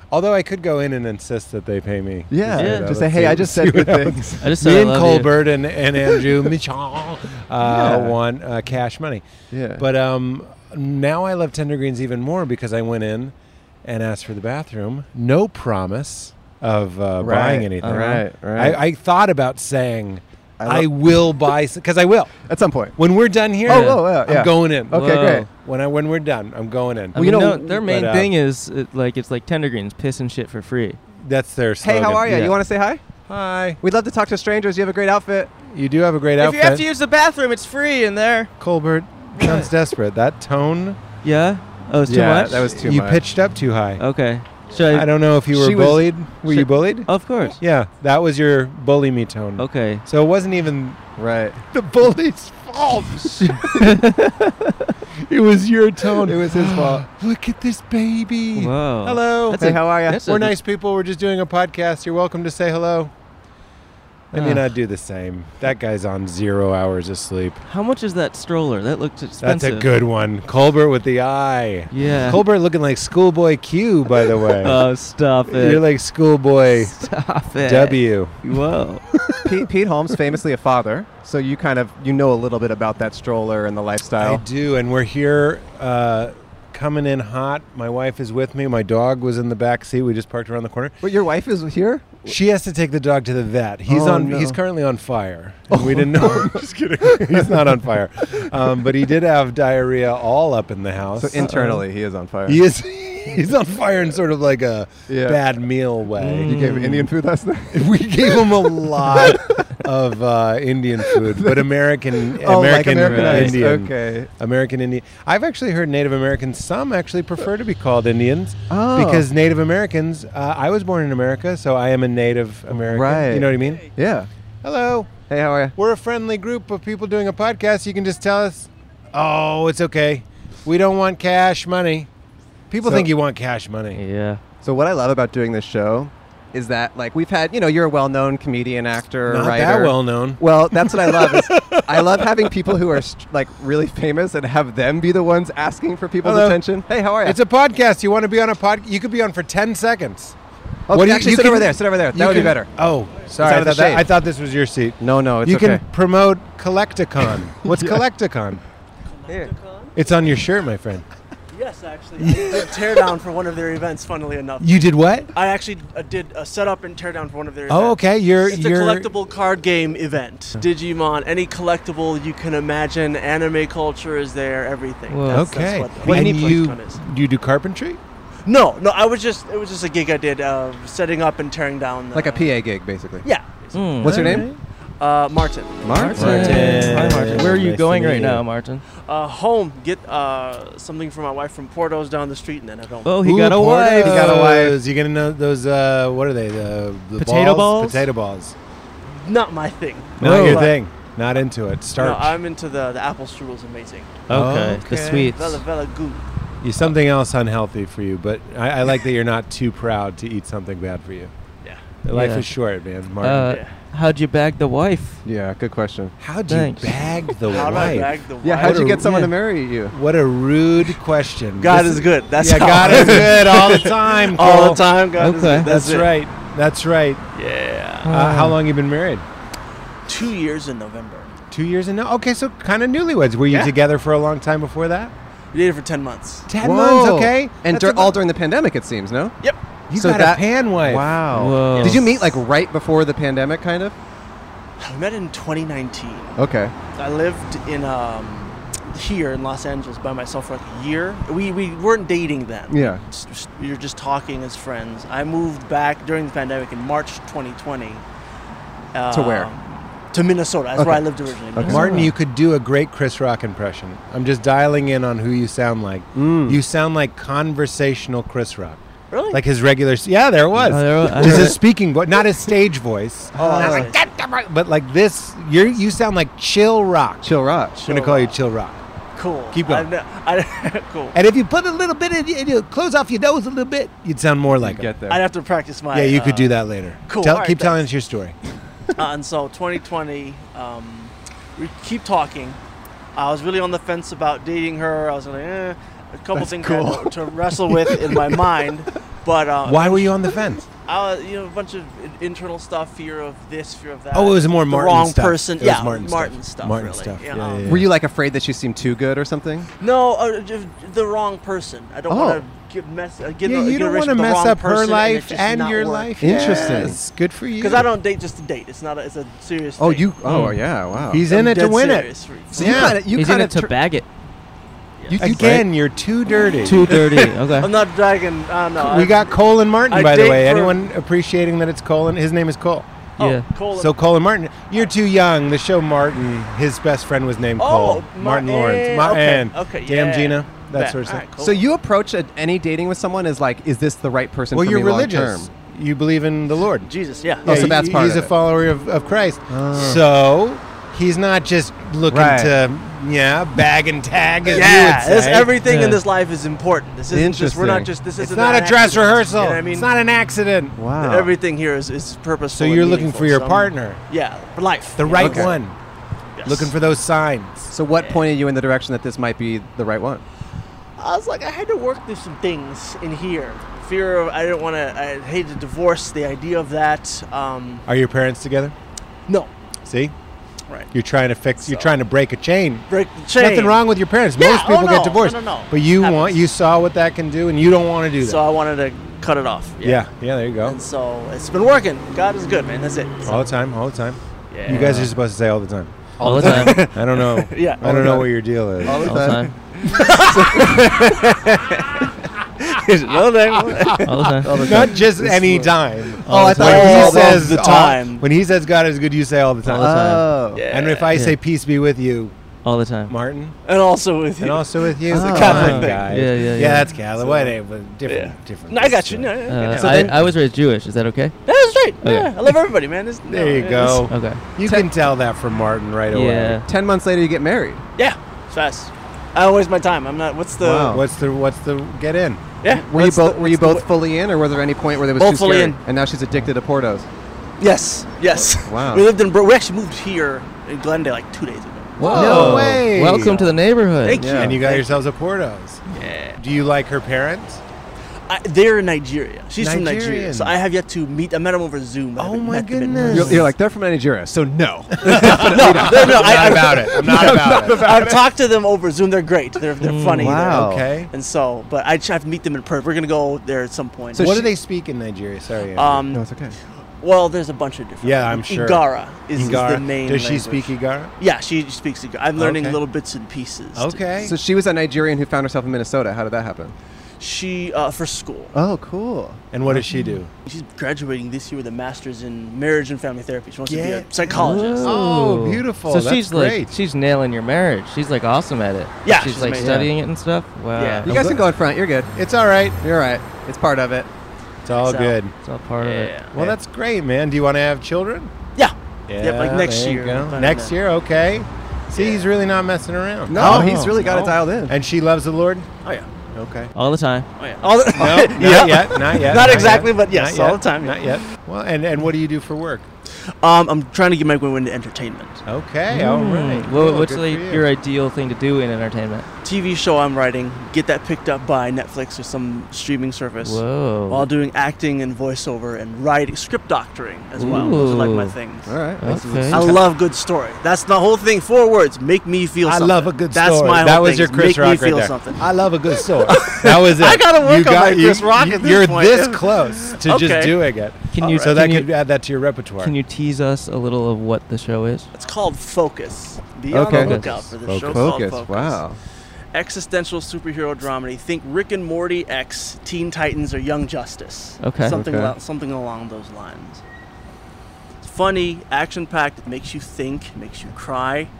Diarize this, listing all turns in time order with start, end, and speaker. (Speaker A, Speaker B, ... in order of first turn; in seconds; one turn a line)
Speaker A: 0.1-13.3
Speaker B: 2.3-4.4
Speaker C: 2.5-2.9
Speaker C: 4.4-5.3
Speaker B: 7.6-8.2
Speaker B: 9.5-9.9
Speaker A: 13.8-22.3
Speaker B: 17.2-18.8
Speaker C: 17.8-18.2
Speaker B: 20.6-21.4
Speaker B: 22.5-23.0
Speaker A: 23.0-27.2
Speaker B: 23.6-25.5
Speaker C: 23.7-24.0
Speaker C: 24.9-25.5
Speaker C: 27.1-31.0
Speaker B: 27.1-27.8
Speaker A: 27.8-28.3
Speaker A: 31.2-32.6
Speaker B: 31.8-33.0
Speaker A: 33.3-33.8
Speaker B: 33.8-35.5
Speaker A: 35.7-36.9
Speaker C: 36.4-38.5
Speaker A: 38.6-41.0
Speaker C: 39.4-39.7
Speaker C: 41.2-42.7
Speaker B: 42.0-43.2
Speaker A: 42.7-44.0
Speaker C: 44.0-45.1
Speaker A: 44.9-51.0
Speaker B: 45.5-46.1
Speaker C: 46.5-47.6
Speaker C: 49.6-50.0
Speaker B: 51.2-51.6
Speaker A: 51.7-53.7
Speaker C: 53.3-54.9
Speaker A: 55.2-63.1
Speaker B: 56.2-57.0
Speaker C: 56.5-56.8
Speaker C: 58.5-60.5
Speaker B: 59.5-60.4
Speaker C: 64.3-64.6
Speaker A: 64.3-67.6
Speaker C: 67.7-69.9
Speaker A: 69.4-74.9
Speaker C: 71.9-72.4
Speaker C: 74.6-75.8
Speaker A: 75.5-77.1
Speaker C: 76.8-79.0
Speaker A: 77.6-78.3
Speaker B: 79.4-84.4
Speaker A: 84.2-91.0
Speaker B: 91.0-92.3
Speaker A: 92.2-101.8
Speaker B: 93.9-94.6
Speaker B: 95.7-98.0
Speaker B: 98.5-98.9
Speaker B: 101.2-102.6
Speaker C: 101.5-101.8
Speaker A: 102.5-106.7
Speaker B: 105.1-105.4
Speaker C: 106.2-107.1
Speaker B: 106.4-109.5
Speaker A: 107.7-123.9
Speaker B: 111.0-111.7
Speaker B: 112.3-114.3
Speaker C: 113.0-113.6
Speaker B: 118.7-119.3
Speaker B: 122.8-124.3
Speaker A: 124.6-125.2
Speaker B: 125.3-125.8
Speaker A: 125.8-132.1
Speaker A: 132.7-134.0
Speaker B: 132.8-133.1
Speaker C: 133.9-134.4
Speaker B: 134.6-147.4
Speaker A: 139.3-142.8
Speaker A: 146.2-146.6
Speaker A: 147.2-150.3
Speaker B: 150.9-152.7
Speaker A: 150.9-158.6
Speaker B: 153.3-154.1
Speaker B: 155.0-155.8
Speaker B: 157.6-158.0
Speaker D: 159.1-159.9
Speaker A: 159.9-161.1
Speaker D: 161.5-164.7
Speaker A: 162.2-162.7
Speaker A: 164.6-165.3
Speaker D: 165.3-177.0
Speaker A: 167.7-169.1
Speaker C: 175.1-175.5
Speaker A: 175.3-178.0
Speaker B: 176.0-176.5
Speaker D: 178.4-182.6
Speaker B: 182.1-183.3
Speaker D: 183.2-184.3
Speaker C: 183.7-184.5
Speaker B: 184.0-184.5
Speaker A: 184.1-184.5
Speaker D: 185.0-185.8
Speaker B: 185.8-187.6
Speaker C: 185.9-188.8
Speaker A: 186.2-188.4
Speaker D: 189.0-193.2
Speaker C: 193.0-194.7
Speaker A: 193.2-198.6
Speaker B: 194.0-194.5
Speaker C: 197.2-198.1
Speaker D: 199.1-200.8
Speaker A: 200.2-202.4
Speaker C: 200.2-200.7
Speaker D: 202.0-204.2
Speaker C: 204.3-205.6
Speaker A: 204.3-205.3
Speaker D: 205.3-206.3
Speaker A: 206.6-211.3
Speaker C: 212.1-212.5
Speaker A: 212.1-213.6
Speaker C: 213.2-215.2
Speaker B: 215.2-216.2
Speaker A: 216.2-219.2
Speaker C: 216.5-217.0
Speaker D: 217.4-218.9
Speaker B: 217.6-219.9
Speaker C: 219.0-219.3
Speaker A: 219.9-224.8
Speaker D: 221.6-226.1
Speaker B: 222.9-223.3
Speaker C: 225.2-225.7
Speaker A: 225.6-227.2
Speaker D: 227.3-228.1
Speaker C: 228.0-228.6
Speaker A: 228.1-229.2
Speaker D: 230.1-231.3
Speaker A: 231.5-235.1
Speaker D: 235.5-236.5
Speaker A: 236.5-238.2
Speaker B: 236.6-239.4
Speaker A: 239.9-241.1
Speaker B: 239.9-243.9
Speaker C: 241.3-242.0
Speaker D: 241.7-242.1
Speaker D: 244.8-246.4
Speaker B: 246.4-246.7
Speaker D: 246.9-258.0
Speaker B: 252.7-253.0
Speaker D: 258.9-262.0
Speaker B: 259.1-259.5
Speaker B: 260.8-261.0
Speaker B: 261.5-261.8
Speaker C: 261.6-262.1
Speaker A: 261.7-268.8
Speaker B: 266.1-266.6
Speaker D: 269.1-269.4
Speaker A: 269.3-277.3
Speaker C: 270.7-271.6
Speaker B: 270.7-271.5
Speaker B: 273.4-273.8
Speaker D: 273.4-274.0
Speaker B: 277.2-277.9
Speaker D: 277.8-278.4
Speaker A: 277.9-278.8
Speaker D: 279.1-281.1
Speaker A: 279.5-279.9
Speaker A: 281.1-284.9
Speaker B: 284.6-285.2
Speaker D: 285.1-286.5
Speaker A: 285.9-288.4
Speaker D: 287.1-287.8
Speaker D: 289.0-292.6
Speaker D: 293.1-300.1
Speaker B: 296.3-298.4
Speaker A: 299.6-300.7
Speaker D: 300.9-307.7
Speaker A: 304.1-307.9
Speaker B: 307.6-309.7
Speaker D: 309.8-316.9
Speaker B: 312.1-312.4
Speaker A: 313.4-317.9
Speaker B: 316.2-317.0
Speaker D: 317.6-320.1
Speaker B: 319.8-321.2
Speaker C: 320.2-320.6
Speaker A: 321.1-323.0
Speaker D: 321.3-322.9
Speaker B: 322.6-323.8
Speaker C: 322.9-324.1
Speaker B: 325.1-325.6
Speaker A: 325.2-327.2
Speaker C: 326.6-327.7
Speaker D: 327.6-329.4
Speaker A: 328.8-332.9
Speaker D: 329.9-330.8
Speaker C: 333.2-333.5
Speaker D: 333.2-334.0
Speaker A: 333.7-341.2
Speaker D: 337.6-341.6
Speaker B: 341.4-345.5
Speaker A: 344.5-346.9
Speaker D: 346.9-347.7
Speaker A: 347.4-355.5
Speaker B: 347.4-348.3
Speaker B: 349.5-350.0
Speaker B: 352.1-352.5
Speaker D: 354.5-359.9
Speaker C: 355.6-356.0
Speaker B: 357.1-357.9
Speaker A: 358.2-360.8
Speaker B: 360.8-361.3
Speaker D: 361.0-365.6
Speaker A: 362.5-364.0
Speaker A: 365.0-365.8
Speaker B: 365.2-365.5
Speaker D: 366.4-366.7
Speaker A: 366.4-367.7
Speaker B: 367.7-370.2
Speaker D: 371.0-377.8
Speaker A: 377.9-378.7
Speaker D: 379.3-379.5
Speaker A: 379.9-380.1
Speaker A: 380.9-388.4
Speaker D: 381.6-381.9
Speaker D: 382.9-383.8
Speaker D: 384.4-386.4
Speaker D: 388.2-390.1
Speaker A: 389.8-390.8
Speaker D: 390.6-393.4
Speaker A: 393.2-399.2
Speaker D: 394.5-395.0
Speaker C: 394.7-395.1
Speaker C: 396.2-396.8
Speaker B: 396.2-396.9
Speaker D: 396.3-398.3
Speaker B: 398.8-399.5
Speaker C: 399.0-399.5
Speaker A: 399.9-401.7
Speaker D: 399.9-401.0
Speaker B: 400.2-401.3
Speaker D: 402.6-404.9
Speaker C: 404.0-404.5
Speaker B: 404.4-405.7
Speaker A: 404.6-410.1
Speaker C: 406.2-407.0
Speaker B: 406.3-407.6
Speaker D: 406.5-408.2
Speaker C: 409.6-410.2
Speaker B: 409.7-410.6
Speaker D: 410.5-411.1
Speaker A: 410.7-412.3
Speaker C: 412.6-413.1
Speaker A: 413.1-413.6
Speaker D: 413.6-416.5
Speaker A: 414.4-420.1
Speaker B: 415.1-415.9
Speaker C: 415.5-416.9
Speaker D: 417.1-417.5
Speaker D: 418.1-420.1
Speaker C: 419.5-421.3
Speaker B: 419.7-420.1
Speaker D: 421.4-424.1
Speaker C: 422.0-422.3
Speaker A: 423.3-426.6
Speaker C: 424.1-424.4
Speaker C: 426.1-426.6
Speaker B: 426.6-427.8
Speaker D: 428.0-431.0
Speaker B: 430.6-431.0
Speaker A: 430.9-432.4
Speaker D: 432.6-433.9
Speaker B: 432.7-437.1
Speaker D: 435.2-435.8
Speaker D: 437.6-444.9
Speaker B: 438.6-439.1
Speaker C: 442.0-444.3
Speaker A: 442.0-443.4
Speaker B: 442.2-442.6
Speaker B: 444.2-444.6
Speaker A: 444.3-445.8
Speaker D: 445.9-446.4
Speaker A: 446.4-447.6
Speaker D: 448.3-453.4
Speaker A: 449.6-450.6
Speaker A: 452.2-453.4
Speaker B: 453.1-458.2
Speaker C: 453.1-453.4
Speaker A: 455.0-458.1
Speaker D: 455.1-464.5
Speaker C: 459.8-460.4
Speaker B: 460.2-460.8
Speaker A: 460.5-461.1
Speaker B: 464.1-464.4
Speaker A: 464.2-466.0
Speaker D: 465.7-466.2
Speaker B: 466.1-466.6
Speaker D: 467.0-474.1
Speaker A: 468.0-468.8
Speaker A: 469.3-471.1
Speaker A: 472.4-472.8
Speaker A: 473.7-474.3
Speaker B: 474.2-476.7
Speaker D: 477.2-478.5
Speaker B: 478.5-479.4
Speaker A: 479.5-480.3
Speaker D: 480.4-484.9
Speaker A: 483.7-486.7
Speaker C: 484.4-491.1
Speaker D: 489.0-489.9
Speaker A: 489.6-489.8
Speaker D: 490.7-491.1
Speaker B: 491.1-492.1
Speaker A: 491.1-491.5
Speaker A: 492.1-492.8
Speaker B: 492.8-494.1
Speaker A: 494.6-495.3
Speaker D: 494.7-495.2
Speaker C: 495.4-496.1
Speaker D: 495.8-496.3
Speaker A: 496.3-498.3
Speaker D: 498.6-500.7
Speaker A: 499.1-505.7
Speaker D: 501.9-502.2
Speaker B: 503.3-504.7
Speaker D: 503.4-504.3
Speaker B: 506.4-506.7
Speaker C: 506.7-507.3
Speaker D: 507.4-511.0
Speaker A: 507.9-512.9
Speaker D: 513.4-515.4
Speaker A: 515.5-517.6
Speaker C: 515.9-519.3
Speaker D: 519.4-528.7
Speaker C: 523.4-524.3
Speaker C: 527.4-528.3
Speaker B: 528.7-529.8
Speaker C: 529.0-529.6
Speaker D: 529.5-535.4
Speaker A: 532.6-542.9
Speaker D: 536.0-540.6
Speaker C: 541.1-541.9
Speaker D: 541.2-541.5
Speaker C: 542.8-545.1
Speaker D: 545.1-548.8
Speaker B: 546.7-549.0
Speaker C: 546.9-547.3
Speaker A: 547.6-548.1
Speaker D: 549.5-556.8
Speaker C: 554.6-555.0
Speaker B: 554.9-555.3
Speaker D: 558.0-561.3